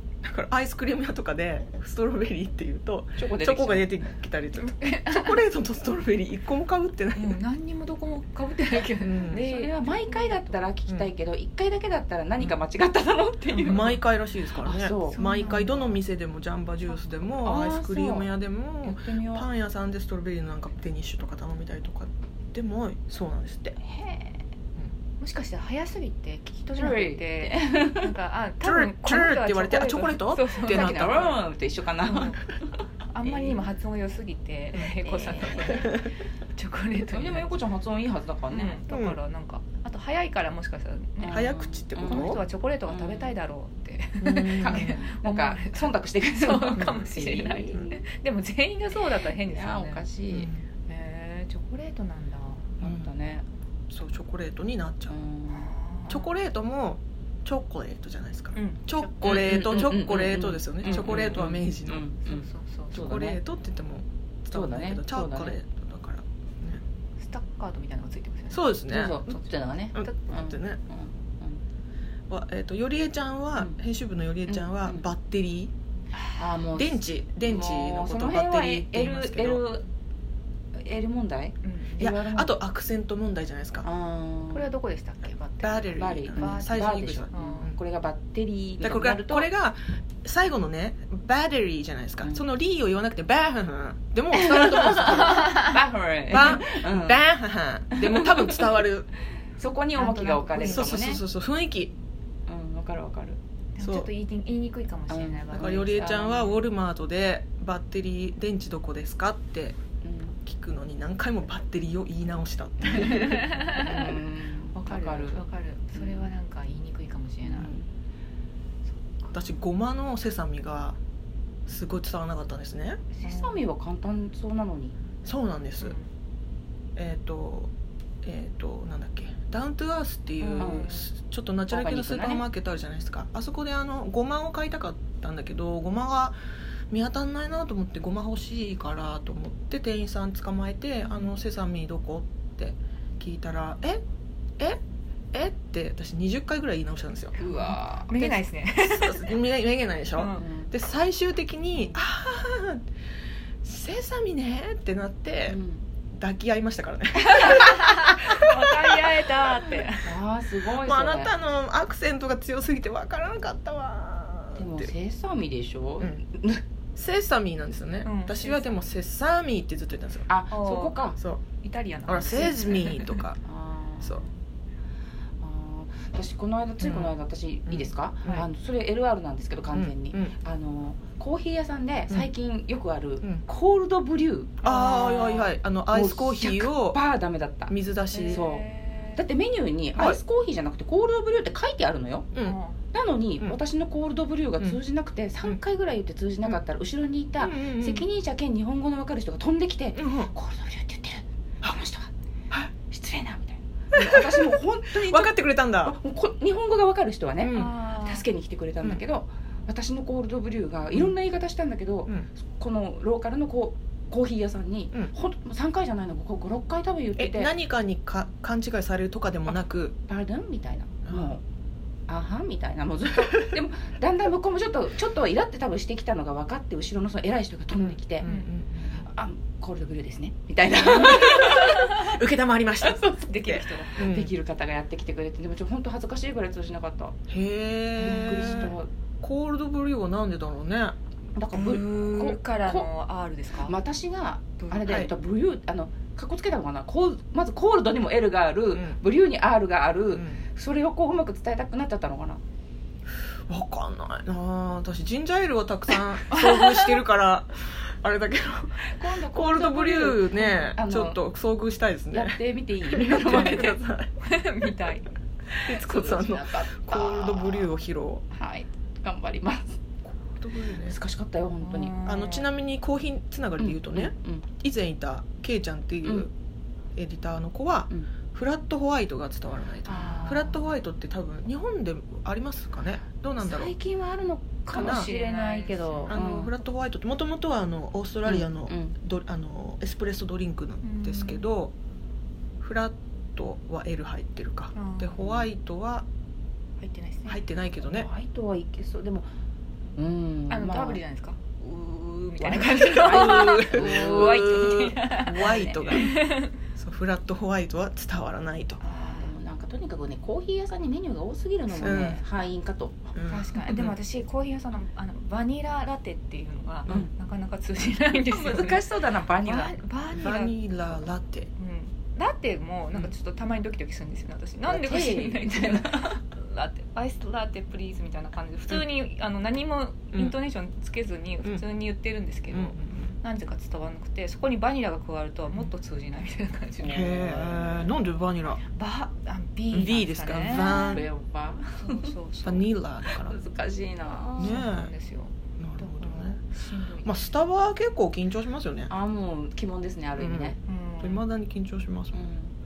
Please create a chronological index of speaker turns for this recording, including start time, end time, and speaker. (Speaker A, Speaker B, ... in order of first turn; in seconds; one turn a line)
Speaker A: 0.2-7.4
Speaker B: 3.2-3.9
Speaker C: 4.6-5.4
Speaker C: 7.2-10.7
Speaker A: 9.0-9.4
Speaker B: 9.3-13.9
Speaker C: 13.5-14.0
Speaker A: 13.6-23.8
Speaker B: 14.6-15.2
Speaker C: 15.0-15.9
Speaker B: 17.4-18.3
Speaker B: 18.8-19.5
Speaker B: 23.8-24.4
Speaker C: 25.2-31.4
Speaker B: 26.7-28.1
Speaker A: 28.6-31.4
Speaker B: 30.6-32.5
Speaker C: 32.0-32.4
Speaker C: 33.1-37.5
Speaker B: 33.2-33.7
Speaker B: 35.0-35.9
Speaker B: 37.0-38.8
Speaker C: 38.5-50.0
Speaker A: 38.9-39.2
Speaker B: 41.2-43.4
Speaker A: 41.3-42.4
Speaker A: 44.2-45.0
Speaker B: 44.5-48.0
Speaker B: 48.9-50.5
Speaker A: 50.3-50.6
Speaker C: 50.9-52.7
Speaker B: 52.8-53.4
Speaker A: 52.8-53.1
Speaker A: 53.9-55.1
Speaker B: 55.1-55.7
Speaker C: 55.5-56.3
Speaker A: 56.1-62.1
Speaker C: 58.5-59.4
Speaker B: 59.2-63.4
Speaker C: 60.9-61.4
Speaker C: 62.2-63.2
Speaker A: 62.9-66.8
Speaker B: 64.5-65.6
Speaker C: 67.2-70.2
Speaker A: 68.5-69.2
Speaker B: 68.9-71.6
Speaker A: 69.9-70.8
Speaker A: 72.3-75.7
Speaker B: 74.5-75.1
Speaker C: 76.1-76.4
Speaker B: 76.4-79.8
Speaker A: 76.7-79.7
Speaker B: 80.7-82.5
Speaker C: 81.6-82.1
Speaker A: 82.0-83.8
Speaker B: 83.8-84.7
Speaker C: 84.5-87.7
Speaker A: 85.6-87.7
Speaker B: 86.0-89.5
Speaker A: 88.8-95.5
Speaker B: 94.4-97.2
Speaker C: 95.1-95.8
Speaker A: 96.3-99.1
Speaker B: 98.0-98.6
Speaker B: 99.6-101.2
Speaker C: 100.0-101.1
Speaker A: 100.6-101.9
Speaker B: 102.5-103.4
Speaker C: 103.8-106.5
Speaker A: 103.8-104.1
Speaker B: 105.1-106.5
Speaker A: 105.5-109.8
Speaker B: 110.0-110.3
Speaker A: 110.4-113.5
Speaker C: 113.0-114.2
Speaker B: 113.7-116.3
Speaker C: 114.8-117.7
Speaker B: 117.4-117.8
Speaker C: 118.9-119.3
Speaker A: 119.3-121.0
Speaker A: 121.7-123.0
Speaker B: 123.1-125.0
Speaker C: 123.2-123.6
Speaker A: 125.2-125.9
Speaker C: 125.8-126.1
Speaker A: 127.0-127.7
Speaker A: 128.2-136.3
Speaker C: 130.4-131.1
Speaker B: 130.6-130.9
Speaker B: 131.7-132.4
Speaker A: 136.9-144.0
Speaker A: 145.3-147.4
Speaker B: 147.4-148.4
Speaker C: 147.4-149.3
Speaker A: 148.8-152.8
Speaker C: 150.1-150.4
Speaker B: 150.4-150.7
Speaker A: 153.6-155.6
Speaker B: 155.5-155.8
Speaker A: 156.1-158.9
Speaker C: 157.3-160.2
Speaker B: 160.0-161.3
Speaker A: 160.8-164.9
Speaker B: 164.6-166.6
Speaker A: 166.9-170.3
Speaker C: 168.0-168.9
Speaker B: 170.3-171.2
Speaker C: 170.5-171.0
Speaker C: 171.6-173.2
Speaker A: 172.1-173.4
Speaker B: 173.4-174.3
Speaker B: 175.4-185.3
Speaker A: 176.8-177.1
Speaker A: 177.7-178.4
Speaker A: 179.7-180.3
Speaker C: 184.6-185.5
Speaker A: 184.6-187.0
Speaker B: 185.9-187.7
Speaker A: 187.7-188.4
Speaker C: 188.1-189.2
Speaker B: 188.3-192.3
Speaker A: 189.9-190.2
Speaker C: 192.4-192.8
Speaker B: 192.9-202.1
Speaker A: 197.4-198.1
Speaker A: 199.9-200.3
Speaker B: 202.9-217.5
Speaker A: 204.0-205.9
Speaker A: 207.4-207.7
Speaker C: 207.5-208.2
Speaker A: 217.2-219.9
Speaker B: 220.1-221.4
Speaker A: 221.1-221.4
Speaker B: 222.1-228.3
Speaker A: 227.8-229.0
Speaker C: 228.2-228.5
Speaker B: 229.0-232.1
Speaker A: 230.8-234.3
Speaker C: 231.2-232.1
Speaker B: 232.8-233.2
Speaker C: 233.0-234.0
Speaker B: 233.9-237.2
Speaker A: 237.3-240.9
Speaker B: 238.0-238.9
Speaker C: 238.0-238.7
Speaker B: 241.3-242.9
Speaker C: 241.5-243.8
Speaker B: 243.6-252.4
Speaker C: 244.6-244.8
Speaker A: 244.8-245.1
Speaker A: 248.7-249.0
Speaker A: 250.1-250.4
Speaker A: 253.5-264.1
Speaker C: 256.3-257.0
Speaker B: 258.8-261.2
Speaker B: 262.1-263.8
Speaker C: 263.2-265.1
Speaker A: 265.6-268.2
Speaker B: 265.8-267.7
Speaker B: 268.3-269.8
Speaker A: 270.2-271.0
Speaker B: 270.8-272.0
Speaker C: 271.6-272.5
Speaker A: 272.0-276.3
Speaker B: 273.6-274.4
Speaker A: 276.9-283.7
Speaker B: 279.9-280.6
Speaker B: 283.4-286.5
Speaker A: 284.7-285.1
Speaker C: 284.7-286.2
Speaker A: 286.1-291.7
Speaker B: 288.2-288.9
Speaker C: 290.8-291.4
Speaker A: 292.6-296.1
Speaker C: 294.7-295.2
Speaker B: 295.2-295.5
Speaker C: 296.8-297.4
Speaker A: 297.2-298.1
Speaker B: 297.8-299.3
Speaker B: 299.9-301.0
Speaker C: 300.5-306.5
Speaker B: 302.4-304.6
Speaker A: 302.9-306.2
Speaker A: 306.7-308.8
Speaker C: 308.8-309.3
Speaker B: 308.9-313.1
Speaker A: 311.7-312.2
Speaker A: 313.1-314.0
Speaker C: 313.3-318.9
Speaker B: 318.1-319.8
Speaker C: 319.4-321.0
Speaker A: 320.1-321.5
Speaker C: 321.6-337.1
Speaker B: 324.7-326.1
Speaker A: 332.5-333.1
Speaker B: 336.8-337.9
Speaker A: 336.8-338.6
Speaker C: 338.7-341.1
Speaker A: 339.7-341.1
Speaker B: 340.5-342.1
Speaker C: 341.7-342.7
Speaker A: 342.4-343.4
Speaker B: 343.1-344.6
Speaker C: 344.2-347.2
Speaker A: 344.4-344.9
Speaker A: 345.6-346.4
Speaker A: 347.0-348.9
Speaker B: 348.9-350.6
Speaker A: 350.2-352.2
Speaker C: 350.6-351.2
Speaker B: 352.1-352.5